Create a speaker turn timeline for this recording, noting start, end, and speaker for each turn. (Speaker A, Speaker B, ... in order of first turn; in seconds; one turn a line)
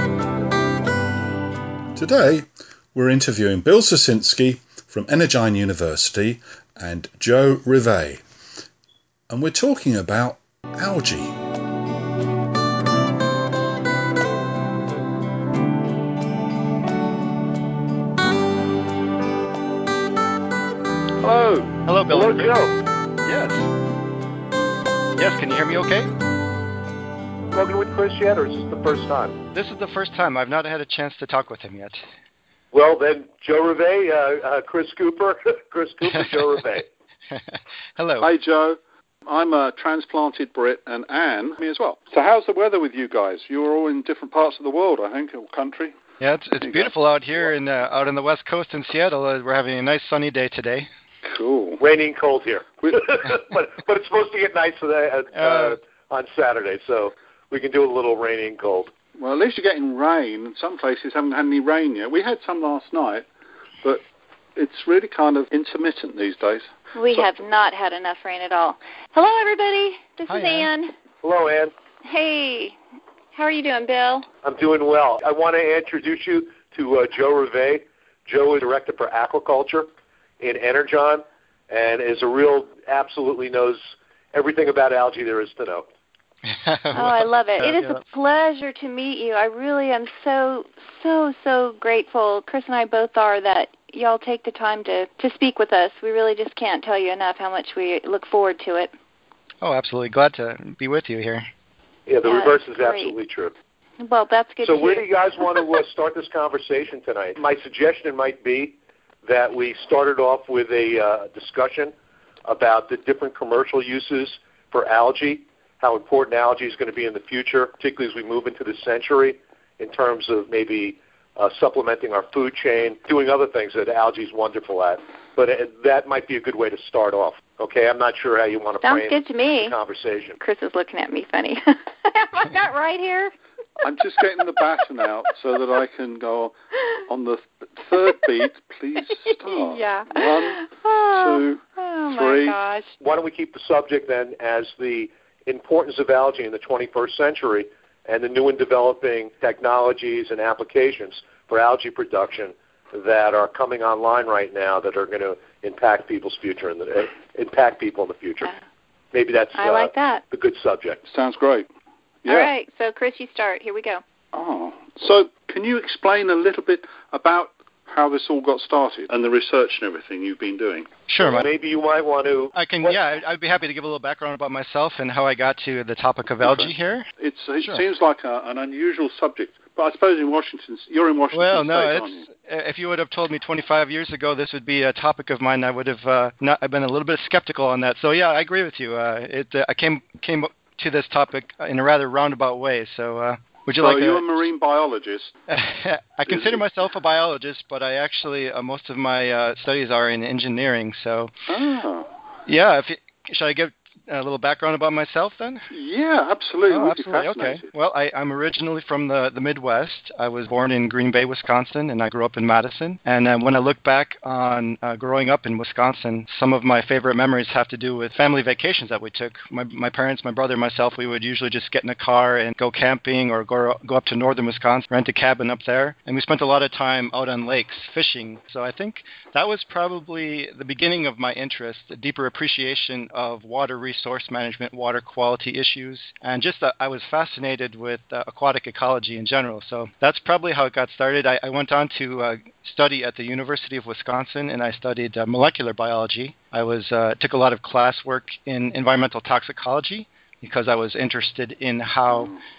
Speaker A: 1.9-8.2
Speaker A: 9.3-11.4
Speaker B: 21.2-22.8
Speaker C: 21.9-22.6
Speaker C: 23.2-23.7
Speaker C: 25.2-26.1
Speaker B: 27.5-29.4
Speaker C: 29.5-32.0
Speaker B: 32.7-36.9
Speaker C: 37.3-38.3
Speaker D: 38.2-46.0
Speaker C: 46.2-50.9
Speaker D: 46.6-46.9
Speaker D: 51.2-51.8
Speaker B: 51.8-58.9
Speaker C: 55.3-55.8
Speaker D: 59.2-63.3
Speaker D: 64.6-67.2
Speaker E: 67.0-70.9
Speaker C: 70.3-70.7
Speaker B: 71.2-71.7
Speaker E: 72.0-72.8
Speaker E: 73.3-74.3
Speaker B: 74.4-79.9
Speaker B: 80.4-83.8
Speaker B: 84.3-85.9
Speaker C: 86.5-88.0
Speaker E: 86.9-98.9
Speaker C: 99.6-101.5
Speaker B: 102.1-103.5
Speaker E: 102.3-103.1
Speaker E: 104.0-105.1
Speaker B: 104.6-111.9
Speaker B: 112.5-130.4
Speaker E: 128.8-129.8
Speaker E: 130.4-133.3
Speaker D: 133.8-136.6
Speaker D: 137.1-142.6
Speaker E: 139.4-142.9
Speaker B: 143.0-158.5
Speaker B: 159.1-161.0
Speaker E: 159.6-160.2
Speaker D: 161.1-161.7
Speaker D: 162.2-162.5
Speaker E: 162.3-164.0
Speaker D: 164.3-170.9
Speaker C: 171.1-171.5
Speaker B: 171.2-173.0
Speaker C: 172.5-177.1
Speaker D: 176.4-182.3
Speaker C: 181.3-194.3
Speaker D: 193.8-195.4
Speaker C: 195.5-201.3
Speaker D: 196.3-196.6
Speaker D: 201.5-202.1
Speaker C: 202.5-205.7
Speaker D: 205.7-207.7
Speaker C: 206.7-252.3